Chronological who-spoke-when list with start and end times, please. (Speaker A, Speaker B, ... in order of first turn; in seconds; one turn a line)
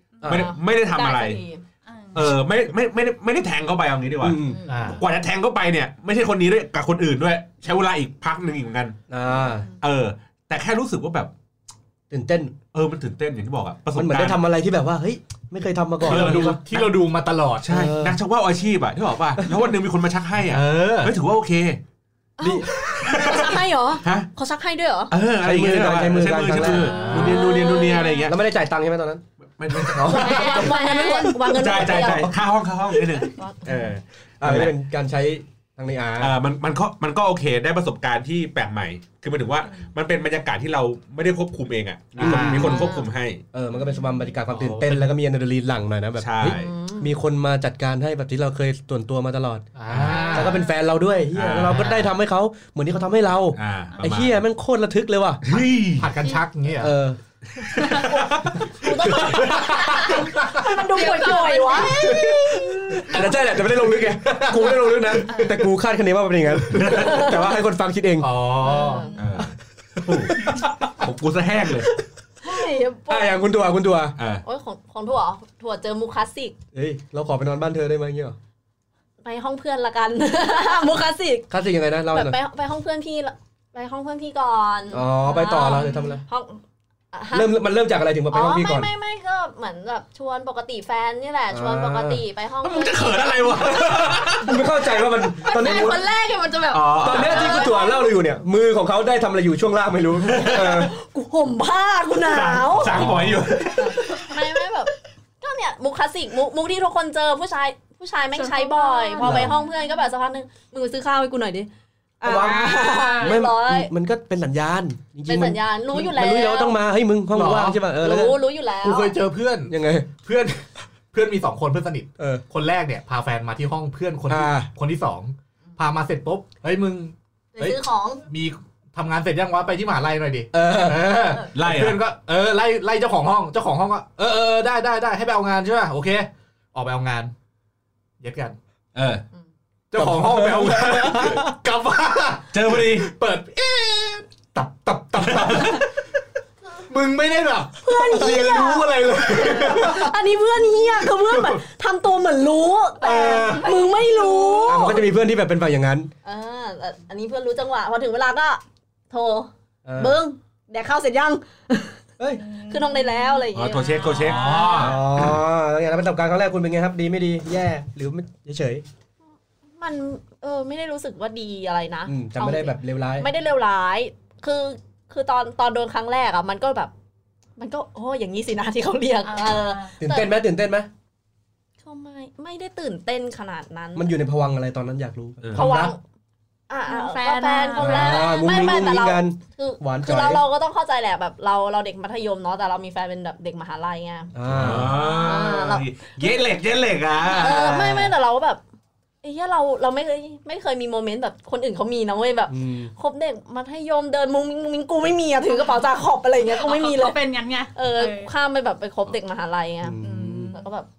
Speaker A: 0.2-0.4
Speaker B: 0.2-1.4
Speaker C: 0.2-1.6
Speaker A: 1.9-2.2
Speaker B: 2.1-9.0
Speaker D: 4.2-4.6
Speaker C: 4.4-5.0
Speaker E: 4.7-5.0
Speaker D: 9.1-9.7
Speaker A: 9.4-9.7
Speaker B: 9.8-11.3
Speaker D: 12.1-12.5
Speaker B: 12.7-14.4
Speaker D: 13.9-16.6
Speaker E: 16.0-17.7
Speaker B: 16.0-16.9
Speaker B: 17.6-21.8
Speaker D: 17.7-18.2
Speaker D: 19.4-19.6
Speaker E: 20.5-21.1
Speaker C: 22.4-25.1
Speaker D: 22.4-22.7
Speaker B: 22.8-24.3
Speaker B: 25.1-28.4
Speaker D: 25.4-27.5
Speaker E: 26.6-27.4
Speaker C: 26.7-28.2
Speaker A: 27.2-28.3
Speaker D: 28.2-31.2
Speaker B: 29.6-30.6
Speaker C: 30.0-32.3
Speaker A: 30.1-31.5
Speaker B: 31.4-34.7
Speaker C: 33.2-33.6
Speaker D: 34.4-36.3
Speaker B: 36.2-43.4
Speaker E: 42.1-42.9
Speaker D: 42.2-42.8
Speaker C: 42.6-43.1
Speaker D: 43.5-55.6
Speaker E: 44.5-45.1
Speaker B: 46.2-46.7
Speaker C: 46.4-47.1
Speaker E: 49.8-50.6
Speaker B: 49.9-50.3
Speaker B: 51.3-52.0
Speaker E: 51.5-52.0
Speaker B: 53.5-54.4
Speaker B: 55.4-56.1
Speaker E: 55.9-56.9
Speaker D: 56.8-57.2
Speaker B: 57.5-59.5
Speaker C: 58.1-63.1
Speaker E: 59.5-60.6
Speaker A: 60.0-62.2
Speaker D: 61.9-68.3
Speaker E: 64.0-65.2
Speaker A: 65.3-65.5
Speaker B: 66.7-67.3
Speaker C: 66.9-67.3
Speaker E: 68.2-69.1
Speaker C: 68.6-69.1
Speaker A: 68.7-69.1
Speaker B: 69.2-71.9
Speaker D: 70.1-70.6
Speaker C: 72.4-73.3
Speaker D: 73.1-74.2
Speaker B: 74.2-74.4
Speaker C: 74.4-76.5
Speaker D: 76.7-78.4
Speaker C: 79.2-81.5
Speaker D: 81.5-82.4
Speaker C: 82.1-86.6
Speaker D: 84.9-86.2
Speaker A: 85.4-86.1
Speaker C: 87.1-87.6
Speaker D: 87.3-88.9
Speaker C: 88.3-94.2
Speaker D: 91.5-92.2
Speaker B: 92.6-94.6
Speaker D: 93.8-96.0
Speaker C: 95.4-98.1
Speaker B: 96.7-97.7
Speaker D: 97.0-100.9
Speaker B: 100.2-100.8
Speaker C: 100.5-103.1
Speaker B: 102.2-104.3
Speaker D: 102.9-103.4
Speaker C: 103.8-113.9
Speaker A: 108.3-110.1
Speaker D: 109.2-109.5
Speaker D: 112.2-118.4
Speaker A: 112.4-113.3
Speaker C: 115.3-116.8
Speaker E: 117.3-117.8
Speaker C: 118.0-119.2
Speaker E: 118.8-137.3
Speaker D: 119.7-120.1
Speaker D: 124.3-124.7
Speaker C: 127.5-128.2
Speaker D: 130.5-131.4
Speaker B: 131.5-132.0
Speaker E: 138.2-138.6
Speaker B: 138.9-139.2
Speaker E: 139.9-145.9
Speaker D: 139.9-141.5
Speaker B: 142.5-143.1
Speaker B: 145.3-145.8
Speaker E: 146.9-150.1
Speaker C: 147.8-155.1
Speaker D: 148.1-150.0
Speaker E: 151.3-151.5
Speaker E: 153.0-153.7
Speaker A: 153.0-154.7
Speaker D: 154.7-156.1
Speaker C: 156.2-162.0
Speaker D: 159.8-160.2
Speaker A: 162.4-164.9
Speaker C: 162.5-164.8
Speaker B: 163.5-165.0
Speaker E: 164.3-165.0
Speaker D: 164.8-168.8
Speaker C: 169.8-176.9
Speaker D: 172.1-173.3
Speaker C: 177.6-180.3
Speaker A: 179.2-179.9
Speaker D: 180.0-180.9
Speaker C: 181.8-184.1
Speaker D: 183.9-185.9
Speaker B: 185.4-185.9
Speaker C: 185.5-186.0
Speaker C: 186.7-194.3
Speaker A: 186.8-188.4
Speaker D: 187.8-190.4
Speaker D: 194.3-195.0
Speaker B: 194.5-198.1
Speaker C: 194.9-195.9
Speaker C: 197.3-198.6
Speaker C: 199.2-207.2
Speaker D: 202.5-202.9
Speaker A: 206.5-208.3
Speaker C: 207.7-210.9
Speaker D: 209.8-210.6
Speaker A: 210.0-210.6